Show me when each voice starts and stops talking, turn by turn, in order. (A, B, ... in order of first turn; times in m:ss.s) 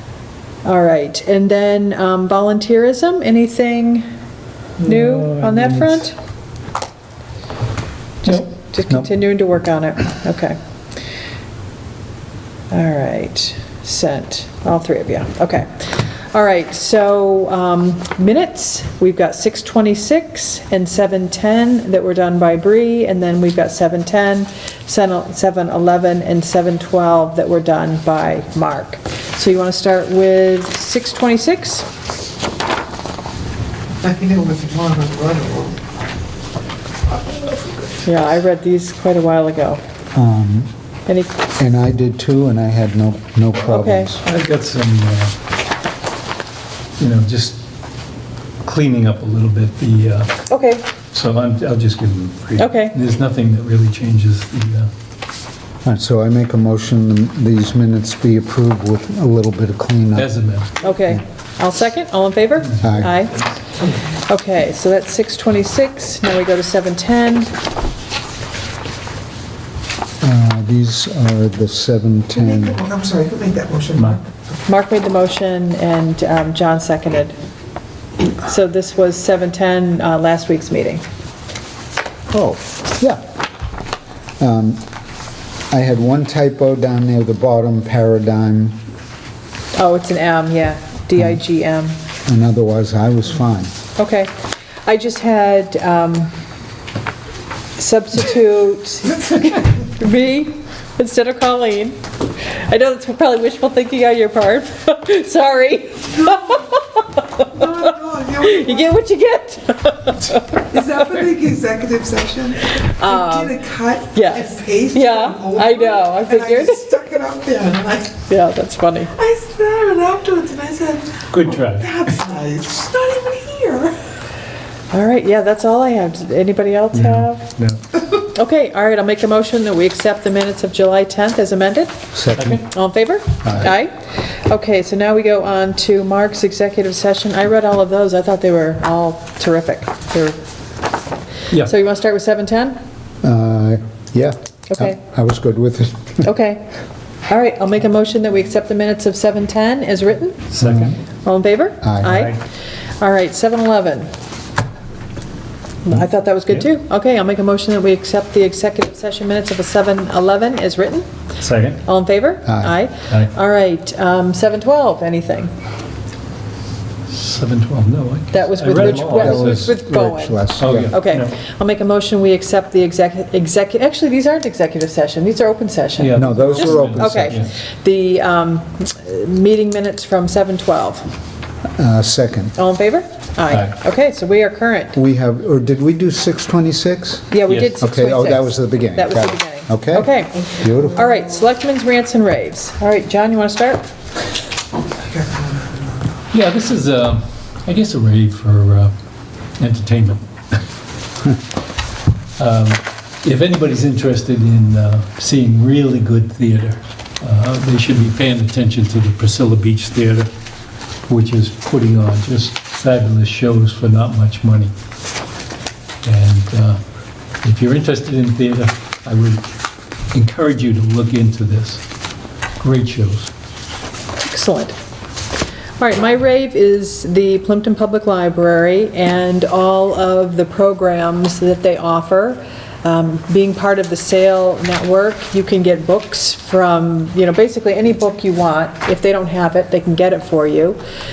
0:00.6-0:04.0 A
0:04.8-0:06.0 B
0:04.8-0:06.1 A
0:08.2-0:10.6 A
0:12.7-0:31.9 A
0:34.0-0:35.8 C
0:37.1-0:37.9 C
0:38.0-0:39.8 A
0:40.1-0:40.7 D
0:41.1-0:41.3 A
0:41.6-0:44.2 D
0:43.7-0:44.1 A
0:44.2-0:45.3 B
0:47.0-0:47.6 B
0:48.6-0:50.4 B
0:50.5-0:50.8 A
0:51.1-0:54.9 B
0:52.6-0:53.0 A
0:55.8-1:00.3 D
1:00.2-1:00.8 B
1:00.8-1:03.4 A
1:02.8-1:03.1 D
1:02.8-1:03.6 B
1:04.1-1:07.5 A
1:10.2-1:12.8 D
1:12.4-1:14.3 C
1:13.9-1:14.2 B
1:14.6-1:17.3 A
1:18.4-1:21.0 A
1:22.3-1:23.2 D
1:24.4-1:24.8 D
1:25.7-1:28.8 D
1:29.7-1:31.9 A
1:32.2-1:33.7 D
1:34.0-1:34.3 A
1:34.8-1:36.3 A
1:37.8-1:51.2 A
1:46.3-1:46.5 C
1:47.5-1:48.9 C
1:50.5-1:58.2 C
1:52.6-1:57.0 A
1:58.2-1:59.2 A
1:59.1-2:04.0 C
2:01.3-2:02.1 B
2:04.9-2:07.4 A
2:06.9-2:07.8 B
2:08.1-2:12.0 A
2:12.1-2:12.6 D
2:12.3-2:12.7 B
2:12.5-2:20.4 A
2:13.4-2:13.7 D
2:21.5-2:22.8 A
2:23.2-2:26.2 D
2:26.2-2:26.7 A
2:27.3-2:30.5 A
2:30.5-2:31.0 B
2:30.6-2:31.0 D
2:31.2-2:32.4 A
2:31.8-2:32.3 D
2:32.1-2:32.4 B
2:33.0-2:34.1 A
2:35.8-2:41.1 A
2:41.4-2:41.8 B
2:41.8-2:45.5 A
2:42.4-2:42.7 D
2:47.1-2:49.7 B
2:48.3-3:01.1 A
2:48.7-2:50.9 D
2:50.6-2:51.3 B
2:56.0-2:57.5 B
2:56.1-2:57.4 D
3:01.8-3:02.5 D
3:02.5-3:05.0 A
3:04.9-3:11.0 D
3:07.3-3:13.8 A
3:07.5-3:07.8 B
3:15.0-3:16.0 C
3:16.3-3:18.9 B
3:19.6-3:20.6 B
3:22.4-3:30.3 B
3:31.1-3:34.7 B
3:36.0-3:36.8 B
3:37.4-3:39.5 B
3:40.1-3:41.8 B
3:42.6-3:43.3 B
3:44.2-3:44.8 A
3:45.8-4:00.8 A